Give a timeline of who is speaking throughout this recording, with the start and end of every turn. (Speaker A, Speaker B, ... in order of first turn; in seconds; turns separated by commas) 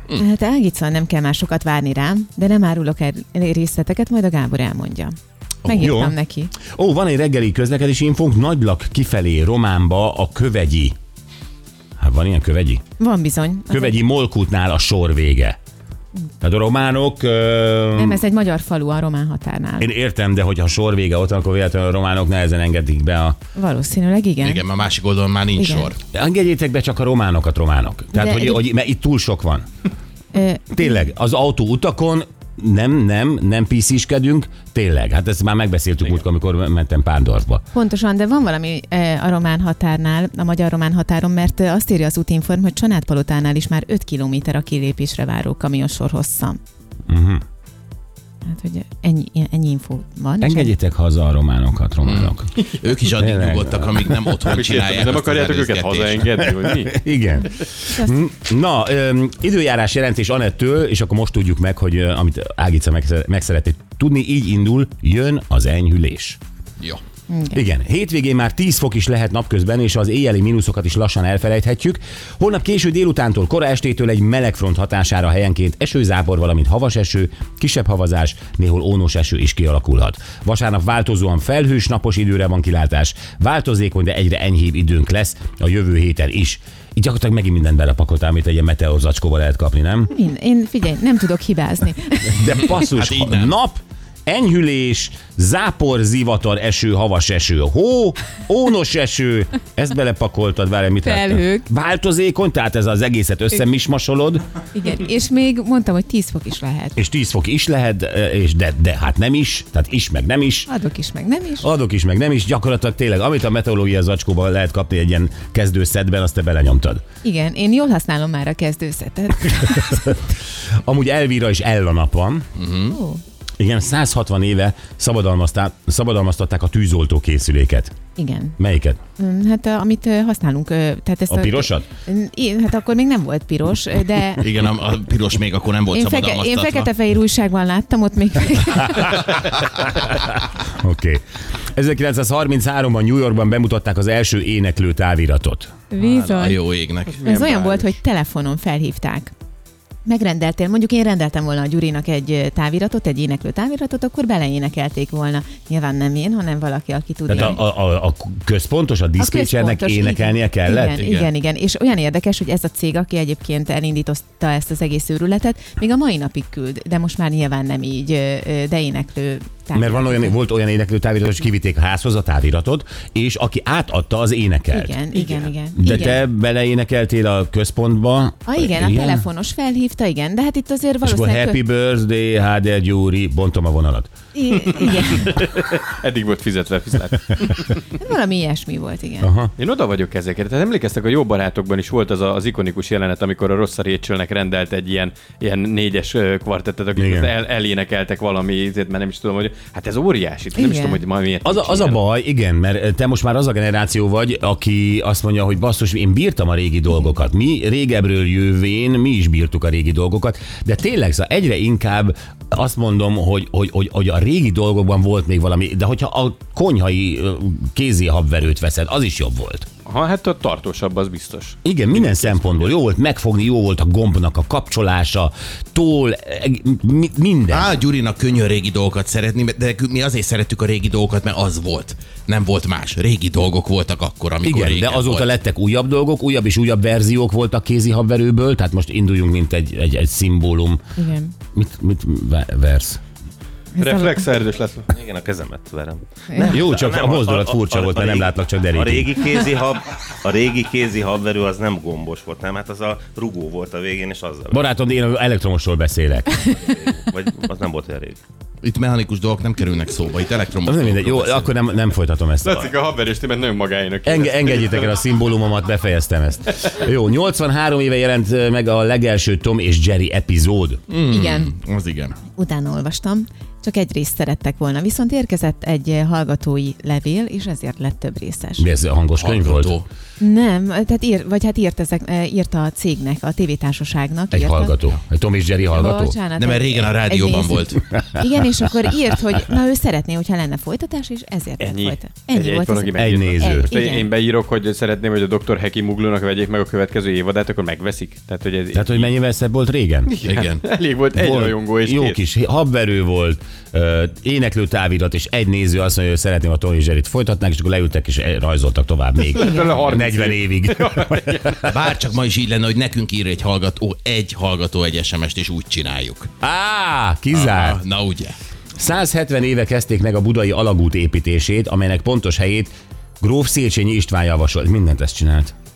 Speaker A: 0.1-6.5, Speaker B: 5.7-10.9, Speaker B: 12.0-12.8, Speaker A: 13.0-14.0, Speaker B: 13.7-15.6, Speaker B: 16.4-18.2, Speaker A: 17.9-19.9, Speaker B: 19.8-23.4, Speaker A: 23.5-24.6, Speaker C: 24.4-26.0, Speaker A: 25.6-25.9, Speaker B: 26.1-29.6, Speaker A: 28.1-28.6, Speaker A: 30.3-31.0, Speaker B: 30.7-37.6, Speaker A: 37.7-46.6, Speaker B: 47.1-47.4, Speaker A: 48.4-50.7, Speaker B: 50.4-52.5, Speaker C: 52.0-56.4, Speaker B: 53.0-54.3, Speaker D: 54.5-57.0, Speaker B: 56.8-66.4, Speaker A: 67.3-67.6, Speaker B: 67.5-90.1, Speaker A: 90.1-92.7, Speaker B: 92.2-104.4, Speaker C: 92.7-93.5, Speaker A: 101.0-101.7, Speaker A: 104.7-107.0, Speaker B: 107.0-110.7, Speaker A: 110.7-111.7, Speaker B: 111.6-117.0, Speaker A: 117.2-120.1, Speaker B: 119.7-122.5, Speaker C: 122.6-123.0, Speaker A: 122.9-123.2, Speaker B: 123.6-127.9, Speaker A: 128.2-128.6, Speaker B: 128.6-129.0, Speaker A: 129.2-134.4, Speaker B: 131.3-131.9, Speaker C: 134.4-136.9, Speaker A: 135.9-139.4, Speaker B: 140.1-145.7, Speaker A: 145.9-146.6, Speaker C: 146.0-147.3, Speaker D: 147.1-147.8, Speaker A: 147.2-149.3, Speaker A: 150.0-157.6, Speaker B: 157.3-161.0, Speaker A: 159.2-170.3, Speaker C: 161.0-161.3, Speaker B: 169.7-179.3, Speaker A: 174.7-176.2, Speaker A: 178.5-181.6, Speaker B: 181.0-184.1, Speaker A: 184.3-185.4, Speaker D: 185.1-187.8, Speaker A: 187.9-189.3, Speaker B: 189.2-189.5, Speaker D: 189.6-202.0, Speaker B: 196.9-197.3, Speaker A: 200.6-201.0, Speaker B: 201.4-219.7, Speaker D: 219.8-222.5, Speaker B: 221.6-227.8, Speaker C: 227.5-235.3, Speaker B: 234.4-240.8, Speaker A: 240.9-241.3, Speaker B: 241.5-243.0, Speaker A: 243.7-244.2, Speaker D: 243.8-244.9, Speaker E: 244.8-254.6, Speaker A: 246.3-246.6, Speaker B: 246.5-249.2, Speaker B: 254.5-256.4, Speaker E: 256.6-258.2, Speaker C: 258.6-261.5, Speaker B: 260.6-262.7, Speaker D: 262.4-265.0, Speaker B: 264.0-270.8, Speaker C: 270.9-272.1, Speaker A: 271.0-271.5, Speaker A: 272.3-278.7, Speaker B: 278.6-279.8, Speaker C: 279.2-279.9, Speaker A: 280.2-284.8, Speaker B: 284.3-286.2, Speaker A: 285.7-294.1, Speaker C: 286.3-287.8, Speaker D: 291.6-299.1, Speaker B: 292.9-293.7, Speaker B: 298.7-300.1, Speaker D: 300.1-302.2, Speaker C: 300.2-300.6, Speaker B: 301.1-311.7, Speaker D: 309.3-311.6, Speaker A: 309.4-309.8, Speaker C: 311.6-316.3, Speaker B: 316.4-317.8, Speaker C: 317.3-318.4, Speaker B: 318.8-325.5